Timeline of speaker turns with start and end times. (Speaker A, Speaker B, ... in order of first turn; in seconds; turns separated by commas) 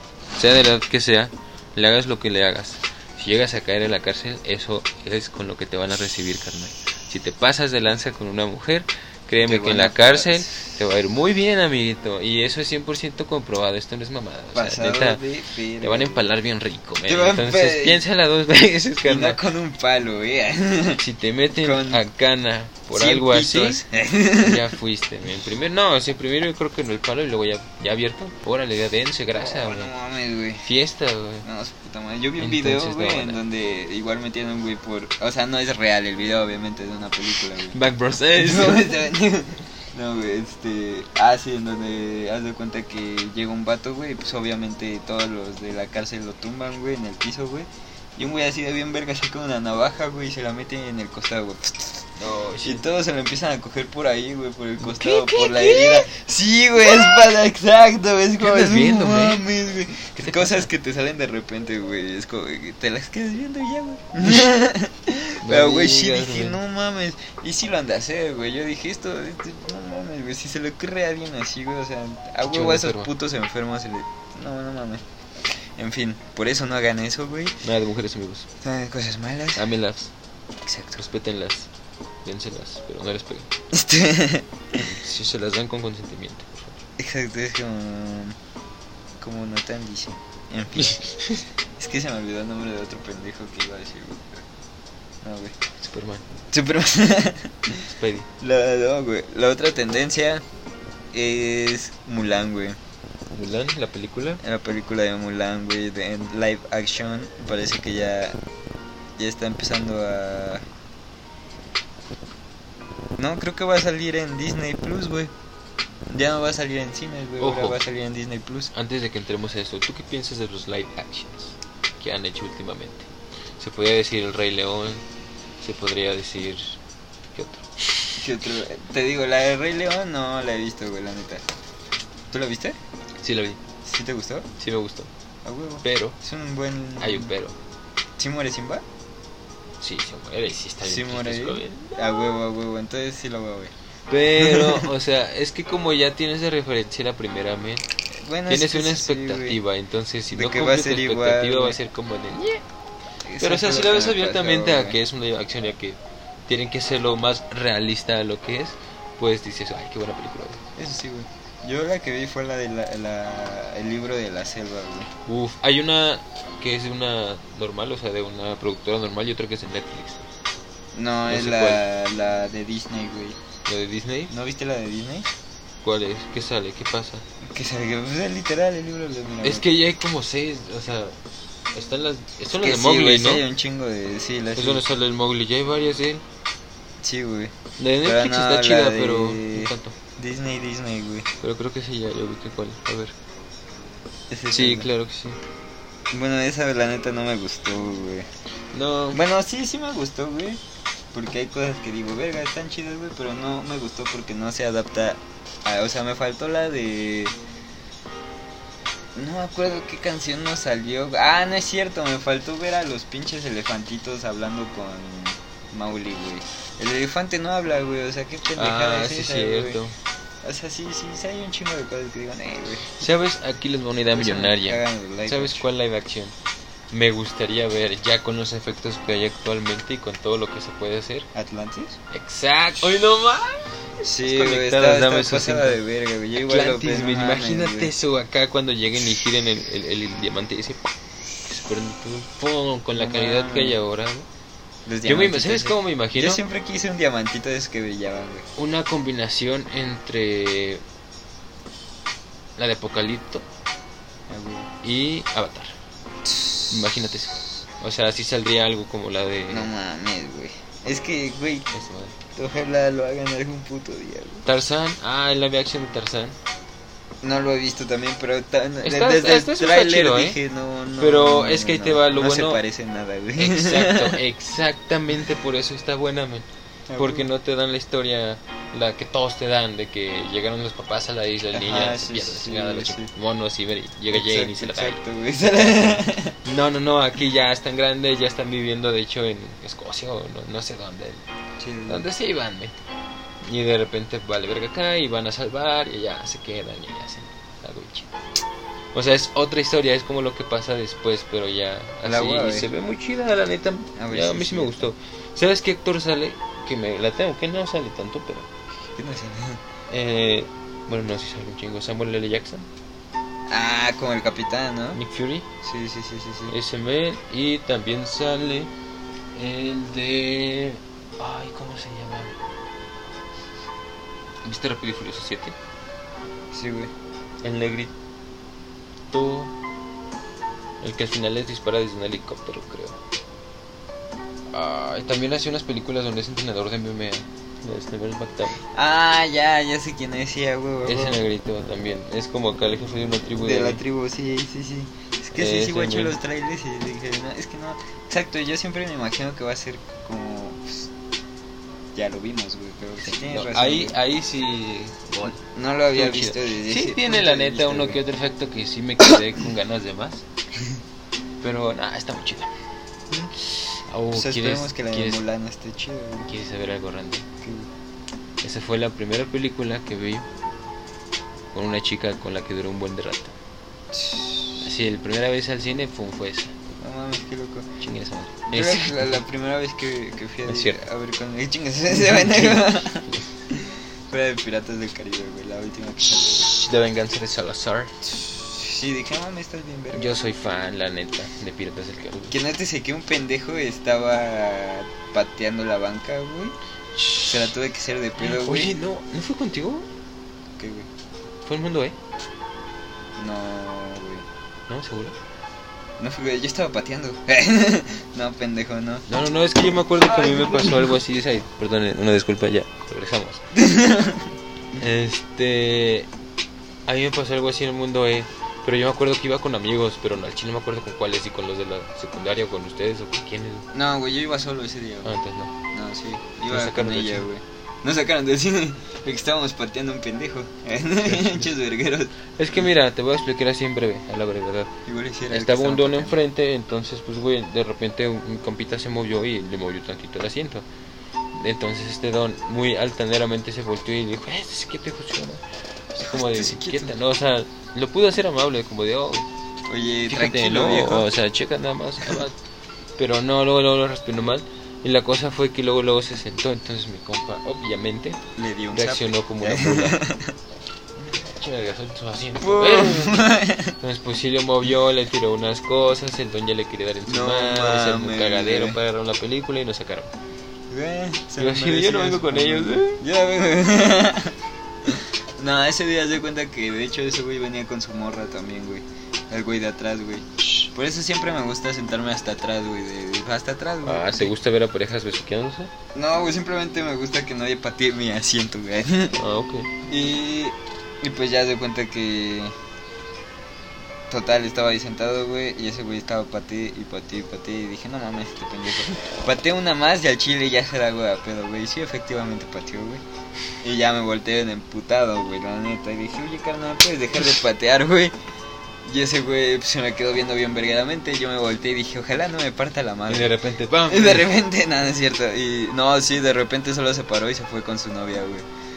Speaker A: 0.4-15.2, Speaker B: 9.4-10.8, Speaker B: 14.6-16.2, Speaker A: 15.8-19.4, Speaker B: 17.1-18.0, Speaker B: 19.1-21.0, Speaker A: 21.0-23.9, Speaker B: 21.6-22.0, Speaker B: 22.9-24.8, Speaker A: 24.4-29.9, Speaker B: 29.4-30.7, Speaker A: 30.6-31.5, Speaker B: 31.4-37.8, Speaker A: 32.4-33.4, Speaker A: 37.7-38.9, Speaker B: 38.4-52.0, Speaker A: 52.2-52.9, Speaker B: 52.6-77.6, Speaker A: 54.8-56.1, Speaker A: 56.9-57.1, Speaker A: 58.4-59.5, Speaker A: 60.2-60.7, Speaker A: 64.2-64.5, Speaker A: 65.4-66.6, Speaker A: 72.5-73.1, Speaker A: 77.6-78.5, Speaker B: 78.6-79.7, Speaker A: 79.5-80.1, Speaker B: 80.7-81.0, Speaker A: 81.0-81.7, Speaker A: 82.2-83.5, Speaker B: 83.7-84.8, Speaker A: 84.7-86.8, Speaker B: 87.0-88.4, Speaker B: 89.2-91.0, Speaker A: 90.8-91.4, Speaker B: 91.8-94.4, Speaker B: 95.2-95.5, Speaker A: 95.8-96.2, Speaker B: 96.5-97.8, Speaker A: 97.8-98.3, Speaker B: 98.4-100.5, Speaker B: 101.1-102.8, Speaker A: 103.3-104.4, Speaker B: 104.4-108.4, Speaker B: 109.2-110.7, Speaker B: 113.2-115.3, Speaker B: 116.1-118.7, Speaker A: 117.4-117.8, Speaker A: 118.7-125.0, Speaker A: 125.6-126.8, Speaker A: 127.3-128.2, Speaker B: 128.2-131.4, Speaker B: 132.3-132.8, Speaker A: 133.2-133.6, Speaker B: 133.8-134.5, Speaker A: 134.6-135.1, Speaker B: 135.4-137.3, Speaker A: 135.8-136.2, Speaker A: 137.0-137.6, Speaker B: 138.2-138.8, Speaker A: 139.8-142.0, Speaker B: 140.8-143.7, Speaker A: 144.1-147.8, Speaker B: 144.4-144.9, Speaker B: 148.2-149.6, Speaker A: 148.5-152.6, Speaker B: 150.3-151.8, Speaker B: 153.2-155.0, Speaker A: 153.4-160.6, Speaker B: 160.8-165.1, Speaker A: 165.3-170.3, Speaker B: 170.9-173.4, Speaker A: 171.3-171.8, Speaker A: 173.7-174.3, Speaker B: 174.3-175.3, Speaker A: 175.8-177.2, Speaker B: 177.4-179.7, Speaker A: 179.4-181.2, Speaker A: 181.7-183.4, Speaker B: 182.5-184.8, Speaker A: 184.6-186.2, Speaker B: 187.0-191.3, Speaker A: 187.8-189.9, Speaker A: 191.4-193.1, Speaker B: 194.3-194.9, Speaker A: 194.5-195.4, Speaker B: 196.1-198.3, Speaker A: 198.7-199.2, Speaker B: 199.1-200.6, Speaker B: 201.1-207.4, Speaker B: 209.2-219.8, Speaker A: 218.6-219.9, Speaker B: 220.4-223.0, Speaker A: 223.0-226.3, Speaker B: 224.1-225.6, Speaker A: 226.9-231.3, Speaker B: 231.3-232.0, Speaker A: 232.1-235.8, Speaker B: 234.0-237.9, Speaker A: 236.4-240.8, Speaker A: 241.4-244.3, Speaker B: 242.9-243.8, Speaker B: 244.9-248.5, Speaker A: 245.1-246.4, Speaker A: 248.6-250.8, Speaker A: 252.6-253.4, Speaker B: 254.3-254.7, Speaker A: 254.8-255.8, Speaker B: 256.2-257.0, Speaker A: 256.7-259.7, Speaker B: 259.5-261.7, Speaker A: 261.7-262.2, Speaker B: 262.3-264.5, Speaker A: 264.5-266.4, Speaker B: 267.2-274.2, Speaker A: 268.8-270.4, Speaker A: 271.0-272.6, Speaker A: 273.4-285.0, Speaker B: 276.9-277.3, Speaker B: 281.5-283.1, Speaker B: 284.1-286.4, Speaker A: 285.6-291.2, Speaker B: 291.6-292.1, Speaker A: 291.9-292.7, Speaker A: 293.4-298.1, Speaker A: 298.9-308.5, Speaker B: 302.0-302.7, Speaker B: 304.0-304.9, Speaker B: 309.0-309.6, Speaker A: 309.9-312.7, Speaker B: 313.5-315.0, Speaker A: 314.9-315.5, Speaker B: 315.6-316.6, Speaker A: 316.5-318.7, Speaker A: 319.4-322.4, Speaker A: 324.4-325.6, Speaker B: 326.5-326.9, Speaker A: 327.4-327.9, Speaker A: 329.1-329.5, Speaker A: 330.8-333.0, Speaker A: 334.5-338.6, Speaker B: 338.7-341.2, Speaker A: 340.9-343.8, Speaker B: 343.4-350.9, Speaker A: 345.4-346.2, Speaker B: 351.9-354.0, Speaker A: 353.0-355.4, Speaker B: 355.3-358.0, Speaker A: 355.9-360.2, Speaker A: 361.4-362.5, Speaker A: 363.4-365.2, Speaker B: 364.1-366.3, Speaker A: 366.2-367.3, Speaker B: 367.4-367.7, Speaker A: 368.4-370.3, Speaker A: 371.5-373.4, Speaker B: 373.9-374.7, Speaker A: 374.6-376.5, Speaker B: 376.8-377.7, Speaker A: 377.8-379.2, Speaker B: 378.5-386.5, Speaker A: 380.4-380.9, Speaker A: 381.9-383.3, Speaker A: 386.3-388.0, Speaker B: 388.0-390.2, Speaker A: 389.9-392.4, Speaker B: 392.3-396.6, Speaker A: 397.0-397.4, Speaker B: 397.3-398.7, Speaker A: 398.2-399.9, Speaker B: 400.6-400.9, Speaker A: 401.5-402.0, Speaker B: 403.2-404.2, Speaker A: 404.7-405.2, Speaker B: 406.0-409.1, Speaker A: 409.1-413.4, Speaker B: 410.1-410.9, Speaker B: 413.6-414.3, Speaker A: 414.7-416.1, Speaker A: 416.9-423.7, Speaker B: 423.7-425.1, Speaker A: 425.0-425.5, Speaker B: 425.7-432.7, Speaker A: 426.5-427.3, Speaker A: 431.0-431.5, Speaker A: 432.4-434.7, Speaker B: 434.9-436.2, Speaker A: 435.3-440.6, Speaker A: 441.3-445.4, Speaker A: 445.9-449.3, Speaker B: 446.2-446.9, Speaker B: 449.7-451.1, Speaker A: 450.1-452.4, Speaker A: 453.0-458.2, Speaker B: 458.4-460.4, Speaker A: 458.7-460.0, Speaker A: 461.2-470.1, Speaker B: 462.4-463.8, Speaker B: 467.1-468.8, Speaker B: 470.7-484.3, Speaker A: 471.4-473.0, Speaker A: 483.9-485.7, Speaker B: 485.9-489.2, Speaker A: 489.2-489.7, Speaker B: 489.9-492.5, Speaker B: 494.1-503.0, Speaker A: 498.9-499.2, Speaker B: 503.6-508.1, Speaker B: 508.8-513.4, Speaker A: 513.1-514.3, Speaker B: 513.9-518.5